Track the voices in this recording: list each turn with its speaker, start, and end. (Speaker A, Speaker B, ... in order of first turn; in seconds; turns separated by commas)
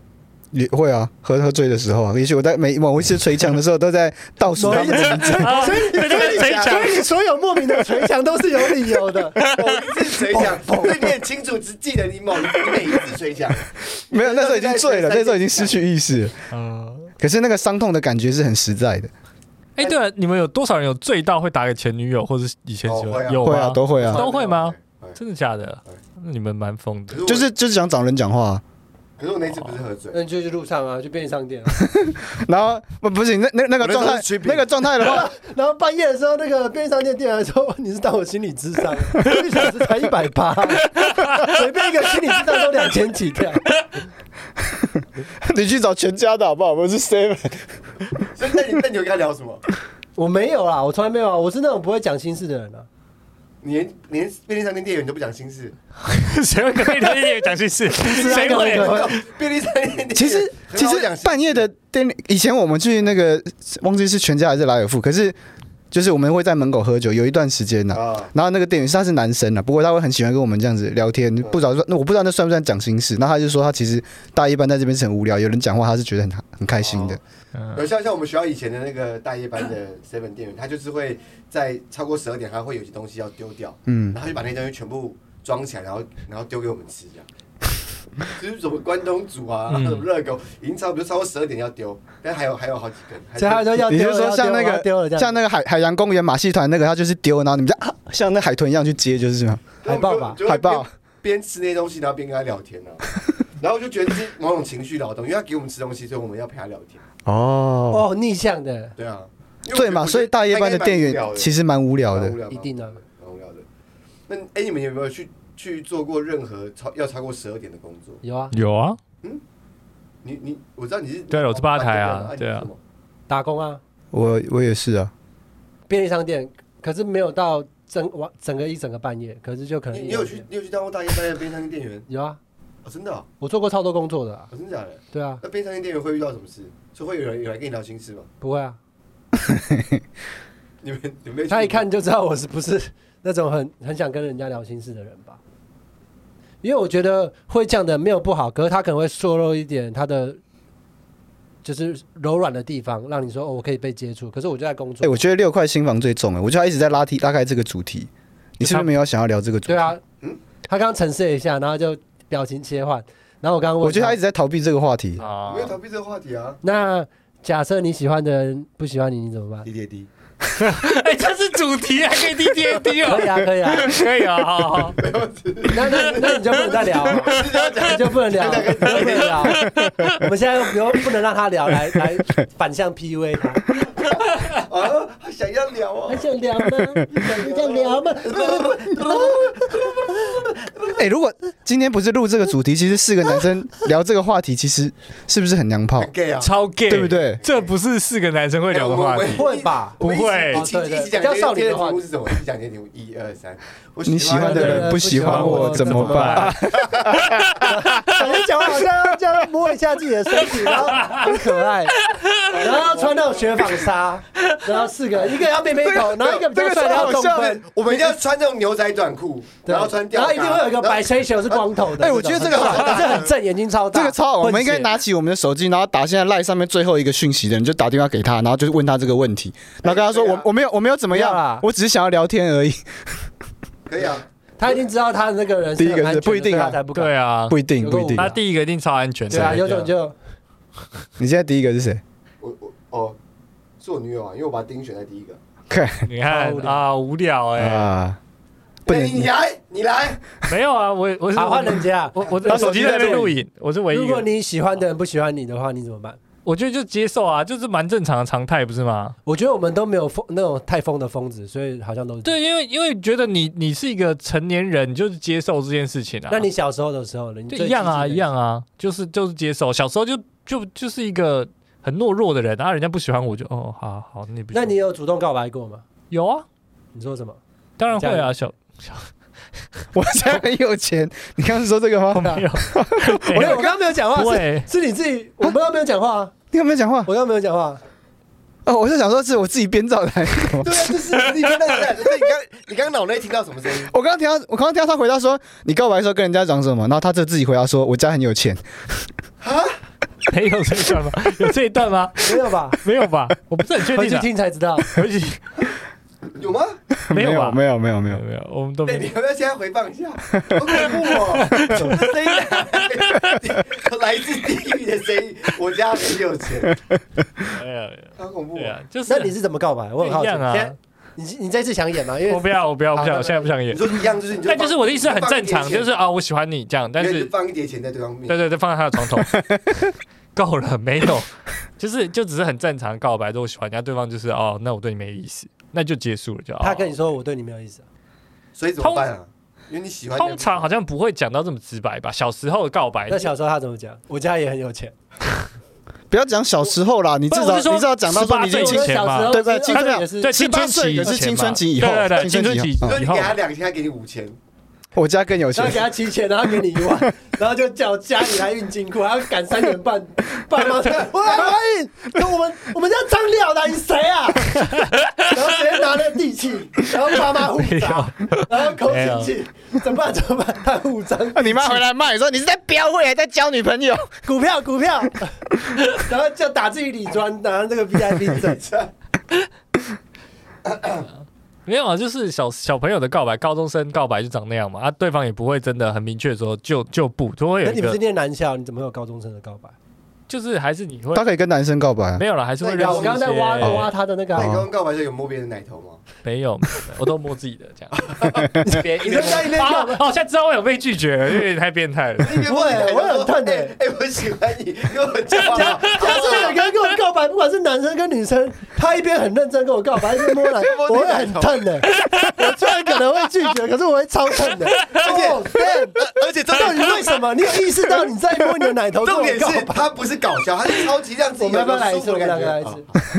Speaker A: 0.5-5.6, Speaker B: 4.5-9.4, Speaker C: 5.3-7.1, Speaker D: 5.5-7.0, Speaker C: 9.4-9.8, Speaker D: 9.5-15.8, Speaker B: 10.3-11.1, Speaker A: 14.1-16.4, Speaker C: 16.5-17.1, Speaker A: 17.2-19.1, Speaker C: 19.8-27.2, Speaker D: 22.9-25.2, Speaker A: 23.4-24.2, Speaker D: 27.1-27.5, Speaker A: 27.2-28.6, Speaker D: 29.2-30.2, Speaker B: 30.1-31.8, Speaker A: 31.8-35.3, Speaker D: 33.8-35.2, Speaker B: 35.0-43.7, Speaker C: 41.0-41.4, Speaker A: 44.8-47.8, Speaker D: 48.3-49.6, Speaker B: 50.2-52.9, Speaker D: 53.6-55.8, Speaker C: 56.0-59.2, Speaker B: 58.0-59.1, Speaker D: 58.1-61.7, Speaker A: 60.1-65.4, Speaker A: 65.9-77.2, Speaker D: 67.9-68.3, Speaker D: 76.8-77.2, Speaker C: 77.5-77.8, Speaker D: 77.7-87.3, Speaker A: 83.9-84.2, Speaker D: 88.2-93.8, Speaker C: 89.7-90.1, Speaker B: 93.4-95.3, Speaker A: 93.8-99.8, Speaker D: 99.8-103.0, Speaker B: 99.8-100.4, Speaker A: 100.4-100.9, Speaker D: 103.6-107.0, Speaker A: 107.2-108.0, Speaker B: 107.9-109.0, Speaker D: 109.0-111.5, Speaker A: 109.7-112.4, Speaker D: 112.1-113.6, Speaker B: 112.5-113.0, Speaker D: 114.3-118.2, Speaker B: 118.2-118.5, Speaker C: 118.5-119.0, Speaker D: 120.2-122.8, Speaker C: 121.3-122.7, Speaker B: 123.3-123.8, Speaker A: 124.1-125.1, Speaker B: 125.9-130.4, Speaker D: 129.9-132.1, Speaker B: 132.1-132.4, Speaker D: 132.8-133.3, Speaker B: 133.4-134.5, Speaker D: 134.5-138.3, Speaker B: 135.1-135.4, Speaker B: 138.4-138.8, Speaker A: 139.4-140.0, Speaker D: 140.8-141.8, Speaker B: 141.5-145.4, Speaker B: 146.6-150.4, Speaker B: 151.6-155.2, Speaker A: 155.0-159.9, Speaker C: 158.6-158.9, Speaker B: 159.7-160.0, Speaker B: 160.6-164.2, Speaker A: 163.8-165.2, Speaker C: 165.2-165.8, Speaker D: 165.2-166.6, Speaker B: 166.6-169.7, Speaker D: 169.6-170.1, Speaker C: 170.5-175.0, Speaker B: 173.0-174.0, Speaker D: 175.0-179.7, Speaker B: 175.7-183.7, Speaker C: 176.9-177.7, Speaker C: 178.9-180.2, Speaker D: 184.2-186.2, Speaker B: 186.1-189.5, Speaker D: 187.2-191.0, Speaker A: 190.9-196.1, Speaker D: 196.0-196.5, Speaker C: 196.4-199.4, Speaker A: 196.9-197.4, Speaker D: 197.4-197.7, Speaker D: 198.7-207.4, Speaker B: 199.3-200.0, Speaker C: 200.0-200.7, Speaker B: 200.5-202.0, Speaker A: 204.1-207.7, Speaker B: 204.3-206.5, Speaker C: 205.2-206.6, Speaker C: 207.3-208.0, Speaker B: 207.6-212.0, Speaker C: 210.6-211.4, Speaker C: 212.0-212.5, Speaker D: 212.4-213.7, Speaker B: 212.5-217.7, Speaker A: 215.8-217.7, Speaker D: 216.7-223.3, Speaker B: 219.6-224.9, Speaker A: 222.0-223.2, Speaker A: 223.9-233.3, Speaker D: 229.8-230.5, Speaker B: 231.1-231.7, Speaker D: 233.9-234.8, Speaker B: 234.6-237.1, Speaker A: 235.8-236.8, Speaker C: 236.9-237.6, Speaker A: 237.5-238.3, Speaker B: 237.8-238.4, Speaker C: 238.1-239.9, Speaker B: 239.3-240.2, Speaker A: 241.2-242.0, Speaker D: 242.4-243.2, Speaker D: 243.8-245.4, Speaker A: 245.7-246.1, Speaker C: 246.1-247.9, Speaker B: 246.3-246.8, Speaker A: 247.6-248.2, Speaker A: 248.8-249.3, Speaker D: 248.9-250.2, Speaker C: 250.4-254.3, Speaker B: 251.3-253.3, Speaker A: 252.4-253.3, Speaker B: 253.9-256.2, Speaker C: 256.4-259.1, Speaker B: 259.2-262.4, Speaker C: 262.2-266.5, Speaker B: 266.3-268.3, Speaker C: 267.5-274.8, Speaker B: 274.5-275.8, Speaker C: 276.1-276.4, Speaker B: 276.9-277.4, Speaker C: 277.8-279.1, Speaker B: 277.9-278.3, Speaker A: 279.9-283.7, Speaker C: 282.1-284.7, Speaker B: 283.3-286.3, Speaker A: 286.5-287.1, Speaker B: 287.1-287.8, Speaker A: 288.6-290.9, Speaker D: 290.6-293.9, Speaker A: 293.9-298.6, Speaker D: 299.4-299.8, Speaker C: 300.3-304.3, Speaker B: 302.2-302.8, Speaker B: 303.9-304.9, Speaker C: 304.8-305.5, Speaker D: 306.3-306.8, Speaker A: 307.0-308.2, Speaker C: 307.1-309.1, Speaker D: 308.8-316.8, Speaker A: 310.3-310.6, Speaker C: 310.8-313.3, Speaker C: 317.5-319.3, Speaker D: 318.2-318.8, Speaker B: 319.1-322.5, Speaker C: 320.0-320.8, Speaker C: 322.3-327.3, Speaker D: 323.0-325.9, Speaker D: 327.0-328.4, Speaker C: 328.3-329.4, Speaker A: 329.3-329.6, Speaker C: 330.3-336.9, Speaker B: 336.6-337.8, Speaker D: 338.6-340.8, Speaker C: 338.8-339.1, Speaker C: 340.1-343.3, Speaker B: 343.1-344.9, Speaker A: 346.1-353.0, Speaker C: 347.3-353.4, Speaker B: 348.5-350.4, Speaker D: 352.8-354.4, Speaker A: 354.9-355.9, Speaker B: 355.5-364.7, Speaker C: 364.6-365.1, Speaker B: 365.3-371.8, Speaker C: 367.4-369.3, Speaker A: 371.3-374.1, Speaker B: 374.2-375.4, Speaker B: 375.9-378.7, Speaker D: 380.6-381.1, Speaker C: 381.6-388.0, Speaker B: 387.6-389.7, Speaker C: 390.3-391.3, Speaker A: 391.1-392.2, Speaker C: 392.2-393.9, Speaker D: 392.6-393.3, Speaker B: 392.8-394.5, Speaker A: 393.6-394.7, Speaker D: 394.3-396.0, Speaker C: 396.2-398.1, Speaker D: 397.9-399.9, Speaker B: 398.6-400.0, Speaker C: 398.8-402.4, Speaker D: 402.2-406.6, Speaker B: 402.5-403.7, Speaker B: 405.4-419.9, Speaker C: 405.5-406.3, Speaker D: 410.6-411.7, Speaker C: 412.1-412.3, Speaker D: 414.8-417.3, Speaker D: 418.9-423.0, Speaker B: 421.4-422.9